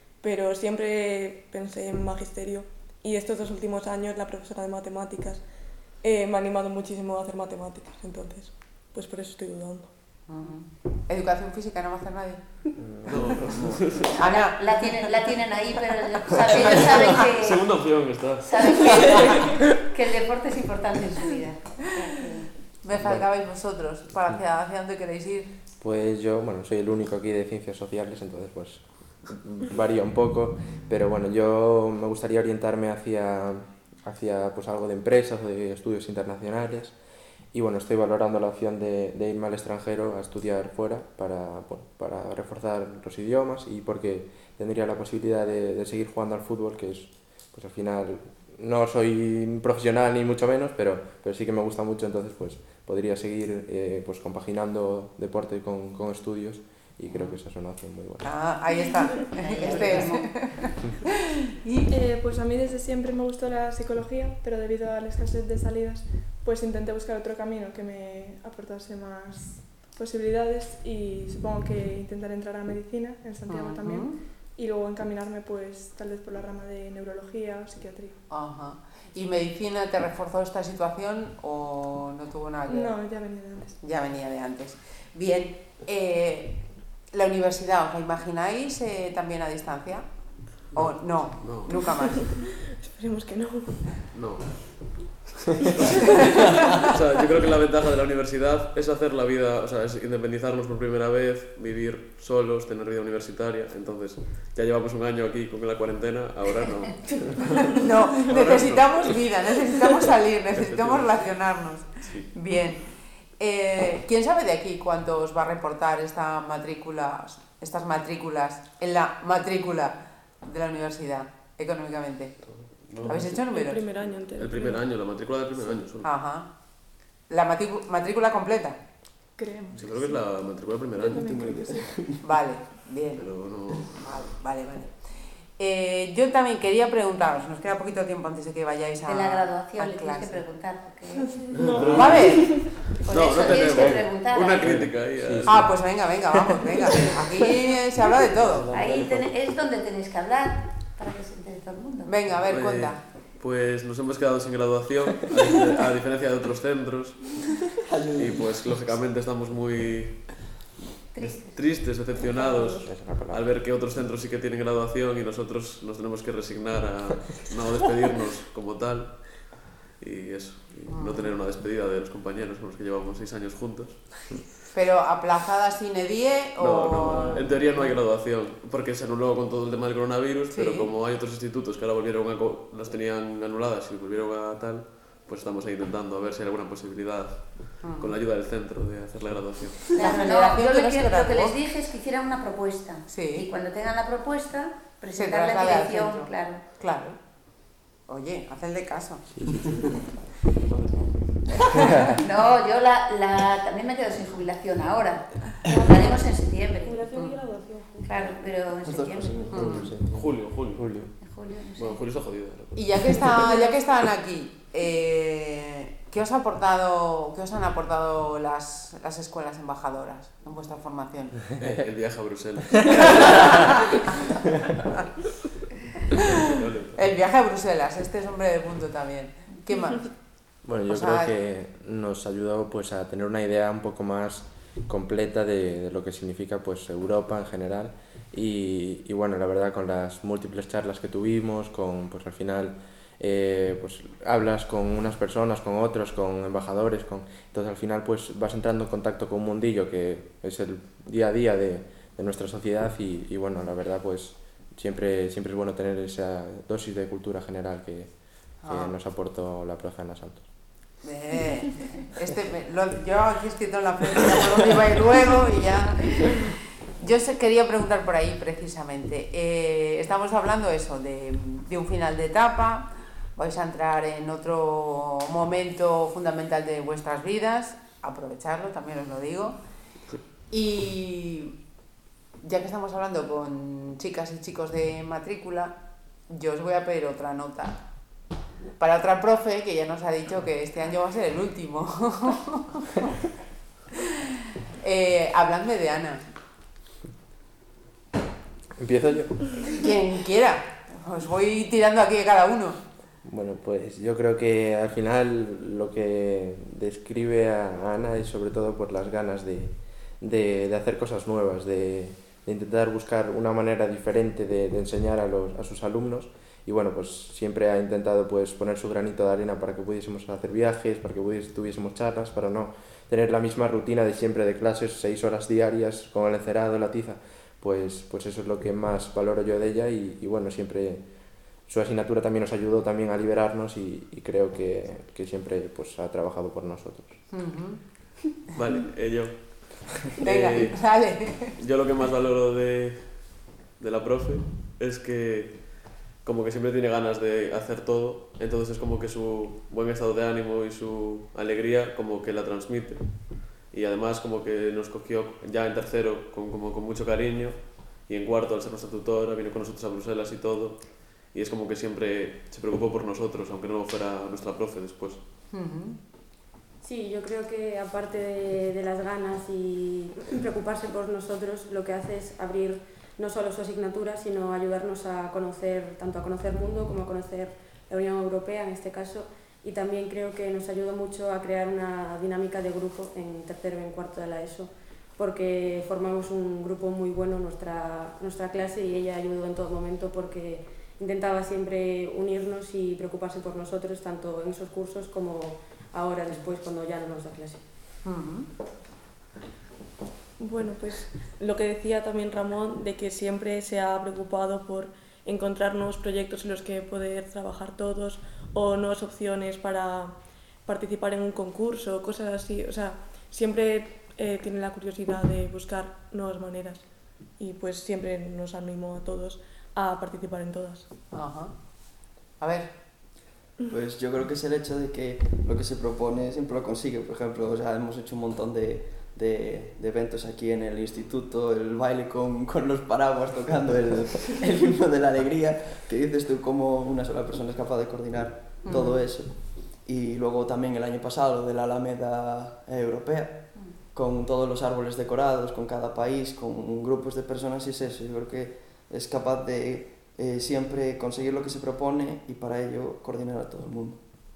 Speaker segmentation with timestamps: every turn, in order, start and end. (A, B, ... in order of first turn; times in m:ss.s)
0:00.2-0:09.9 A
0:10.3-0:13.4 B
0:12.8-0:13.6 C
0:13.1-0:14.1 D
0:14.1-0:17.8 E
0:14.2-0:15.0 B
0:16.5-0:19.5 D
0:16.6-0:17.1 B
0:18.4-0:22.5 E
0:22.8-0:25.5 B
0:25.8-0:37.0 C
0:37.5-0:58.4 C
0:57.1-0:57.4 B
0:58.2-1:01.0 B
0:59.4-1:00.2 E
1:01.6-1:01.9 B
1:01.9-1:18.2 F
1:13.5-1:14.2 B
1:18.3-1:23.0 B
1:22.7-1:23.8 F
1:23.8-1:30.0 B
1:30.7-1:32.2 B
1:31.4-1:32.2 D
1:32.2-1:34.0 A
1:34.1-1:35.0 D
1:35.8-1:49.3 D
1:47.7-2:03.8 B
1:50.5-1:51.3 D
1:52.0-1:52.3 D
2:02.5-2:03.3 D
2:03.0-2:04.9 A
2:04.4-2:06.1 D
2:06.0-2:06.5 B
2:07.3-2:08.8 B
2:09.4-2:12.0 F
2:09.8-2:11.4 D
2:11.0-2:12.2 G
2:12.2-2:20.5 B
2:13.2-2:14.1 D
2:19.0-2:21.4 E
2:21.5-2:22.8 A
2:21.7-2:25.8 D
2:21.9-2:22.9 B
2:22.9-2:24.7 E
2:23.7-2:25.8 C
2:25.5-2:28.8 B
2:28.5-2:29.3 C
2:28.7-2:32.2 E
2:32.1-2:33.0 B
2:32.5-2:37.6 D
2:37.7-2:39.1 G
2:38.2-2:40.4 D
2:41.1-2:42.8 E
2:41.3-2:54.4 D
2:42.6-2:43.5 C
2:50.9-2:51.4 B
2:54.7-2:58.0 B
2:56.6-3:10.0 D
3:00.5-3:00.9 B
3:07.8-3:08.1 B
3:10.0-3:16.7 E
3:10.0-3:11.6 B
3:13.1-3:13.5 B
3:15.1-3:19.3 B
3:19.4-3:19.9 C
3:20.7-3:21.0 D
3:21.5-3:22.0 B
3:22.2-3:27.1 E
3:26.8-3:28.1 A
3:27.1-3:27.4 B
3:28.0-3:29.8 E
3:28.8-3:30.5 G
3:29.5-3:29.9 B
3:29.6-3:30.1 C
3:30.1-3:33.5 D
3:30.7-3:31.1 C
3:31.2-3:32.0 E
3:32.7-3:41.5 B
3:41.6-3:43.8 D
3:46.4-3:47.0 D
3:47.0-3:51.3 B
3:50.6-4:20.5 C
4:18.6-4:18.9 B
4:21.0-4:39.6 B
4:40.5-4:41.6 B
4:42.4-4:47.8 B
4:48.8-4:53.0 B
4:54.8-4:56.2 B
4:58.8-4:59.7 C
4:59.7-5:02.8 B
5:03.2-5:37.2 C
5:37.3-5:38.1 B
5:38.6-5:40.8 D
5:40.2-5:41.5 B
5:41.6-6:05.2 D
6:05.5-6:06.0 B
6:06.8-6:37.6 H
6:38.0-6:38.5 B
6:40.4-7:00.9 A
7:01.1-7:02.8 B
7:03.7-7:34.0 G
7:18.7-7:19.0 B